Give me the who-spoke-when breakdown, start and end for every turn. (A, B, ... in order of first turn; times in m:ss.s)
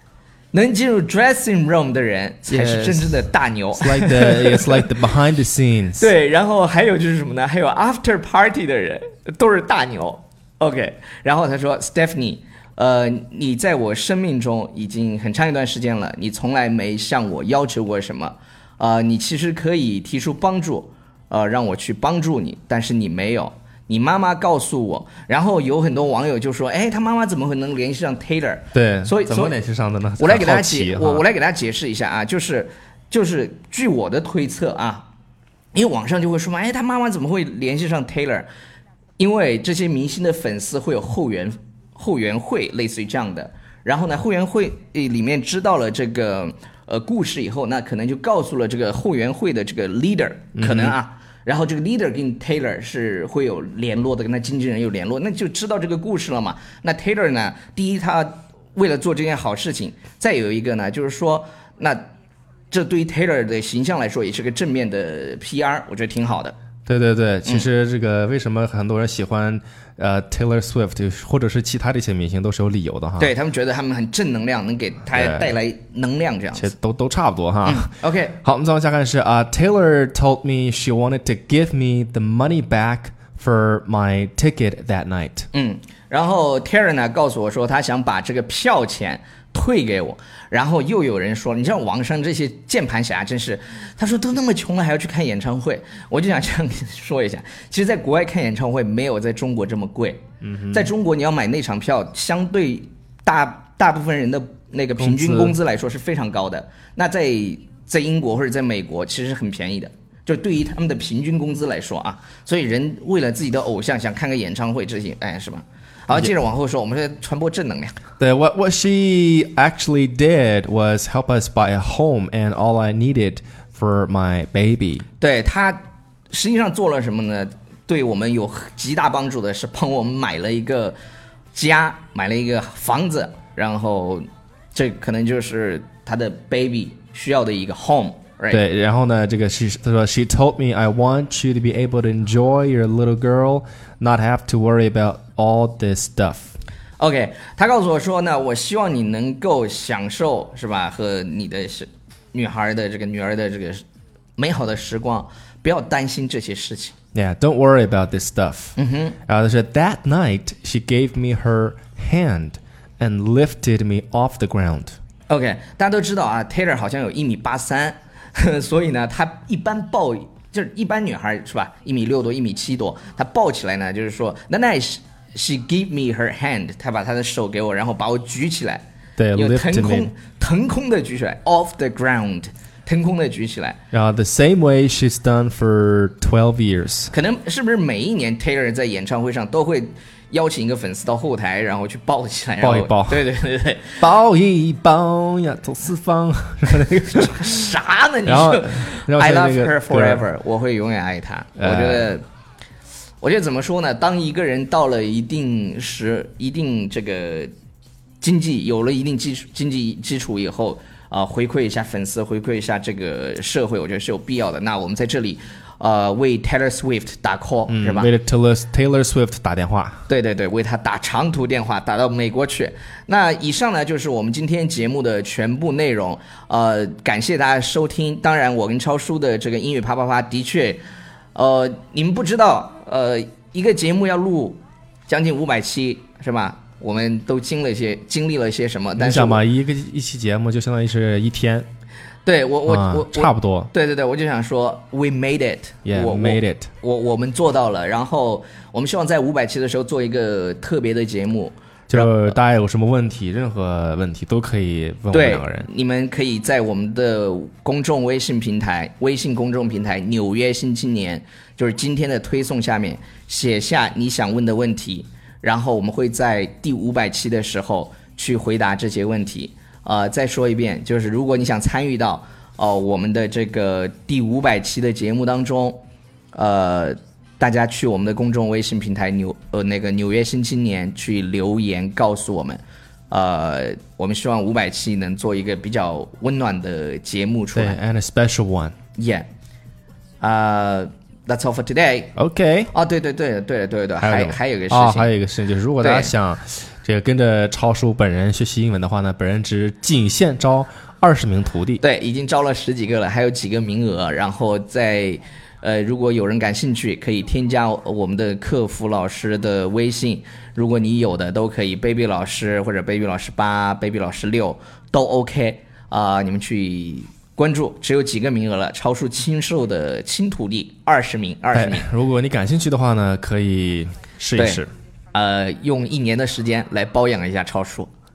0:00.5-0:04.9 A
0:02.5-0:03.3 B
0:03.8-0:06.1 B
0:06.0-0:29.6 A
0:28.7-0:31.2 B
0:30.2-0:35.1 A
0:35.7-0:38.5 A
0:39.2-1:02.1 A
0:50.6-0:51.0 B
1:02.7-1:06.6 A
1:06.9-1:13.3 B
1:13.2-1:16.7 A
1:15.1-1:15.5 B
1:16.6-1:25.5 B
1:17.6-1:18.4 A
1:25.5-1:58.0 A
1:40.4-1:40.9 B
1:45.0-1:45.6 B
1:58.2-2:05.0 B
2:05.2-2:11.0 A
2:11.5-2:18.6 A
2:18.5-2:26.5 B
2:27.0-2:33.8 A
2:34.4-2:36.9 A
2:37.2-2:38.8 B
2:38.8-2:39.2 A
2:39.3-2:45.0 B
2:45.3-2:58.8 A
2:59.2-3:00.1 B
2:59.3-3:03.8 A
3:03.9-3:07.1 B
3:07.1-3:14.0 A
3:12.6-3:13.2 B
3:14.0-3:17.6 B
3:17.2-3:22.2 A
3:18.3-3:20.2 B
3:21.6-3:22.1 B
3:23.2-3:27.5 A
3:28.2-3:38.1 A
3:37.7-3:40.0 B
3:40.1-3:50.8 A
3:51.3-3:59.4 A
3:59.0-4:01.7 B
4:02.2-4:12.2 A
4:02.7-4:03.7 B
4:05.9-4:06.7 B
4:11.9-4:15.7 B
4:15.1-4:35.8 A
4:36.3-4:47.8 A
4:47.5-4:48.8 B
4:49.0-4:49.3 A
4:50.2-4:52.1 A
4:52.2-4:52.7 B
4:52.7-4:55.1 A
4:54.0-5:01.8 B
4:55.8-4:56.1 A
5:01.8-5:21.9 A
5:21.5-5:24.7 B
5:24.4-5:24.6 A
5:25.1-5:27.9 A